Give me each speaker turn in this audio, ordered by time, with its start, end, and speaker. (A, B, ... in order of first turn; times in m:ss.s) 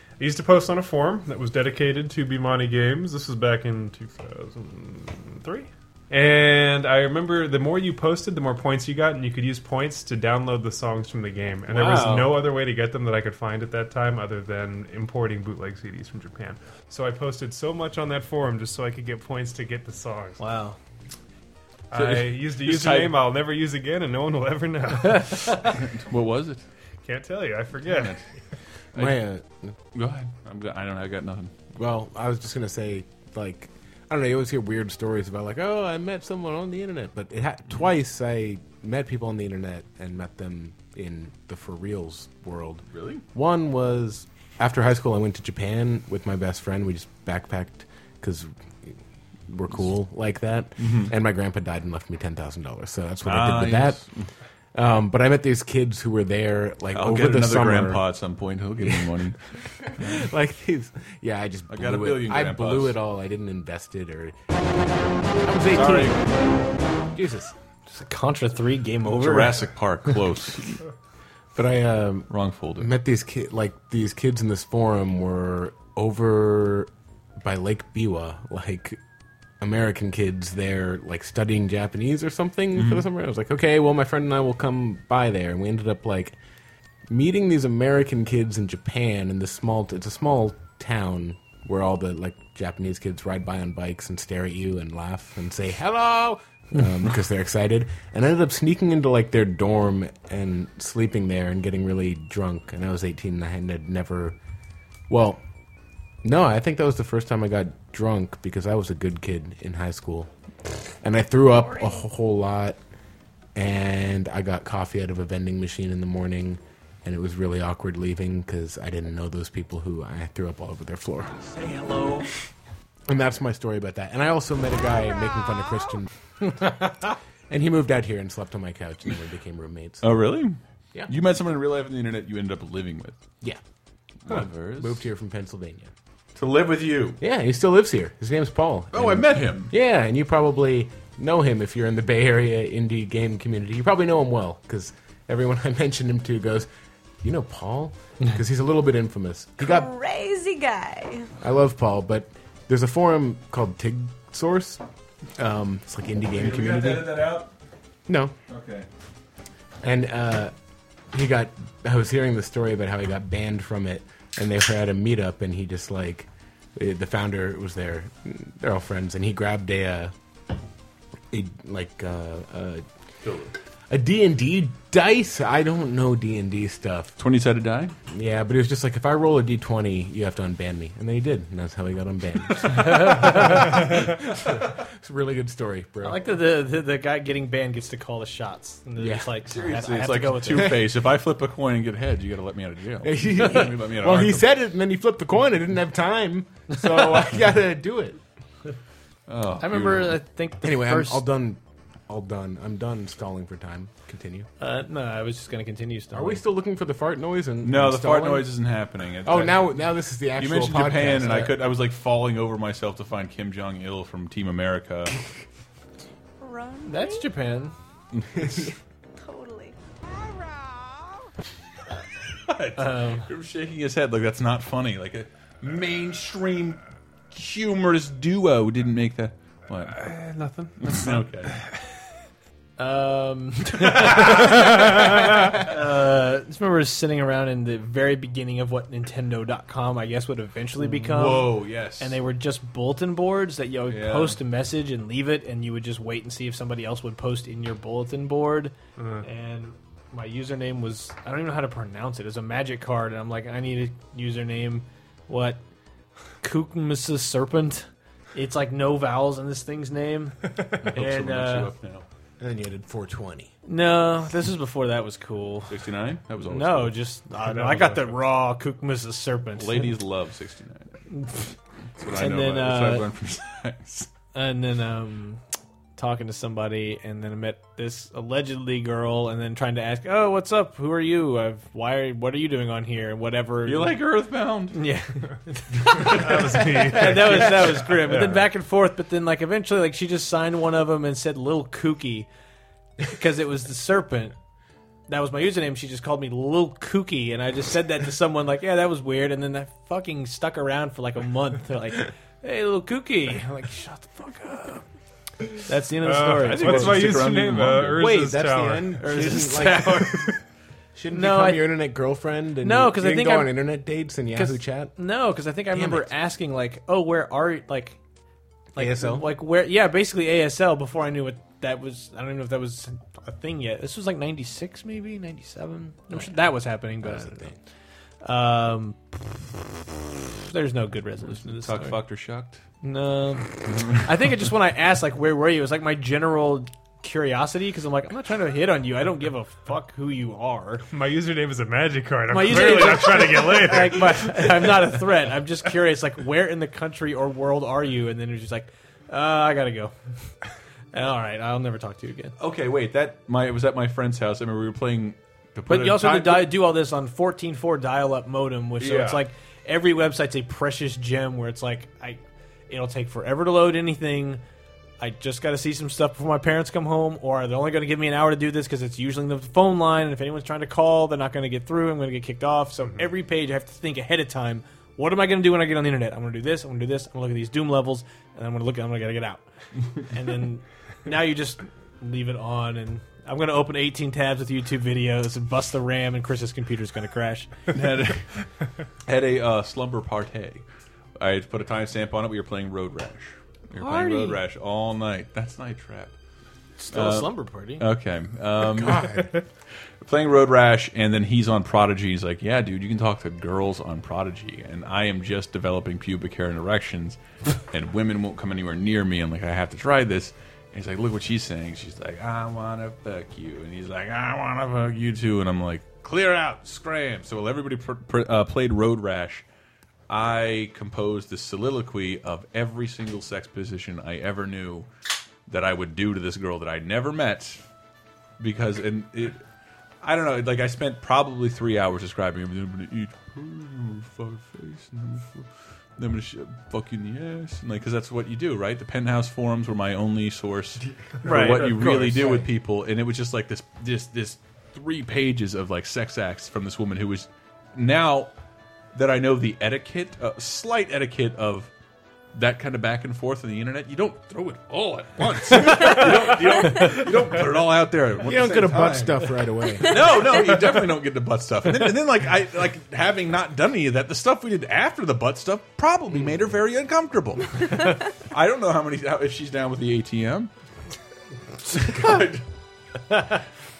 0:00.2-0:20.4 A
0:11.7-0:12.5 B
0:20.4-0:20.8 B
0:21.9-0:25.7 A
0:21.9-0:23.1 C
0:25.6-0:26.6 C
0:27.0-0:28.2 A
0:27.8-0:28.2 C
0:28.9-0:29.2 C
0:29.0-0:29.7 D
0:29.9-0:31.5 C
0:31.7-0:49.0 D
0:42.9-0:43.2 C
0:49.5-0:54.0 D
0:50.8-0:51.1 C
0:53.2-0:54.3 C
0:54.7-0:58.0 D
0:56.9-1:00.2 C
0:58.8-0:59.2 D
0:59.8-1:04.6 D
1:01.7-1:03.0 C
1:05.3-1:06.2 D
1:05.7-1:06.2 C
1:07.1-1:07.5 D
1:07.9-1:09.7 B
1:09.1-1:10.8 C
1:11.5-1:19.0 D
1:12.3-1:12.9 C
1:19.6-1:26.4 D
1:22.8-1:23.0 C
1:27.1-1:44.4 D
1:45.1-1:45.4 D
1:46.2-1:50.3 D
1:51.0-1:52.8 D
1:53.5-2:01.4 D
2:01.6-2:02.3 B
2:03.0-2:10.1 D
2:10.0-2:13.2 C
2:14.2-2:15.0 C
2:14.3-2:15.9 D
2:16.3-2:17.2 C
2:17.2-2:26.7 D
2:18.9-2:19.7 C
2:27.2-2:29.9 D
2:29.6-2:31.3 E
2:31.4-2:34.8 D
2:35.4-2:37.2 D
2:36.3-2:37.5 C
2:38.1-2:38.3 D
2:38.5-2:38.9 C
2:39.8-2:40.5 D
2:41.1-2:50.1 D
2:51.3-2:52.8 D
2:53.2-2:53.5 C
2:53.9-2:57.2 D
2:57.2-2:57.9 C
2:58.1-3:06.2 D
3:02.7-3:03.8 B
3:06.0-3:10.8 B
3:09.0-3:09.3 D
3:09.4-3:14.4 C
3:13.0-3:18.2 D
3:19.3-3:20.2 C
3:19.6-3:21.2 B
3:20.6-3:24.5 D
3:24.6-3:26.4 B
3:26.1-3:28.5 D
3:27.6-3:29.7 C
3:29.2-3:31.6 D
3:30.4-3:35.2 C
3:36.4-3:37.2 E
3:36.8-3:37.7 B
3:38.1-3:38.7 C
3:38.3-3:38.7 D
3:39.2-3:39.7 E
3:42.4-3:50.0 C
3:42.8-3:43.3 B
3:49.9-3:51.7 A
3:50.8-3:51.6 C
3:52.8-4:15.6 B
4:00.8-4:02.2 C
4:03.9-4:04.4 C
4:09.0-4:09.2 A
4:16.4-4:21.7 B
4:20.8-4:22.0 C
4:22.4-4:23.5 D
4:23.6-4:25.8 B
4:25.7-4:27.0 C
4:26.4-4:29.9 B
4:27.6-4:28.1 A
4:29.6-4:31.1 C
4:31.1-4:31.4 B
4:32.0-4:34.1 C
4:32.1-4:33.1 B
4:34.3-4:35.4 B
4:36.0-4:44.0 B
4:43.6-4:44.8 C
4:44.7-4:52.3 B
4:45.9-4:48.5 A
4:53.0-4:54.3 B
4:55.1-5:04.8 B
5:05.6-5:07.3 B
5:06.0-5:09.0 A
5:06.4-5:08.1 C
5:07.9-5:10.3 D
5:09.0-5:10.4 B
5:10.9-5:14.9 D
5:11.1-5:11.8 B
5:12.6-5:13.6 B
5:14.3-5:18.0 B
5:15.7-5:16.1 D
5:18.7-5:27.5 B
5:18.8-5:19.2 D
5:27.0-5:27.6 D
5:28.2-5:29.5 B
5:30.3-5:32.0 B
5:31.4-5:32.6 C
5:32.8-5:40.8 B
5:33.7-5:34.0 C
5:40.9-5:44.9 A
5:42.3-5:49.9 B
5:50.9-5:52.4 B
5:52.4-5:56.5 C
5:55.7-6:04.4 B
5:58.8-5:59.2 C
6:05.0-6:19.4 B
6:20.0-6:27.5 B
6:27.7-6:28.4 C
6:29.0-6:30.6 C
6:31.2-6:36.1 C
6:33.8-6:34.4 B
6:36.8-6:37.8 B
6:36.9-6:39.3 C
6:38.8-6:39.3 D
6:40.0-6:59.4 C
7:00.1-7:04.9 C
7:05.5-7:07.6 C
7:08.4-7:09.4 C
7:10.0-7:28.3 C
7:21.2-7:22.5 B
7:28.9-7:31.7 C
7:32.3-7:50.5 C
7:38.2-7:40.2 D
7:51.7-7:52.4 C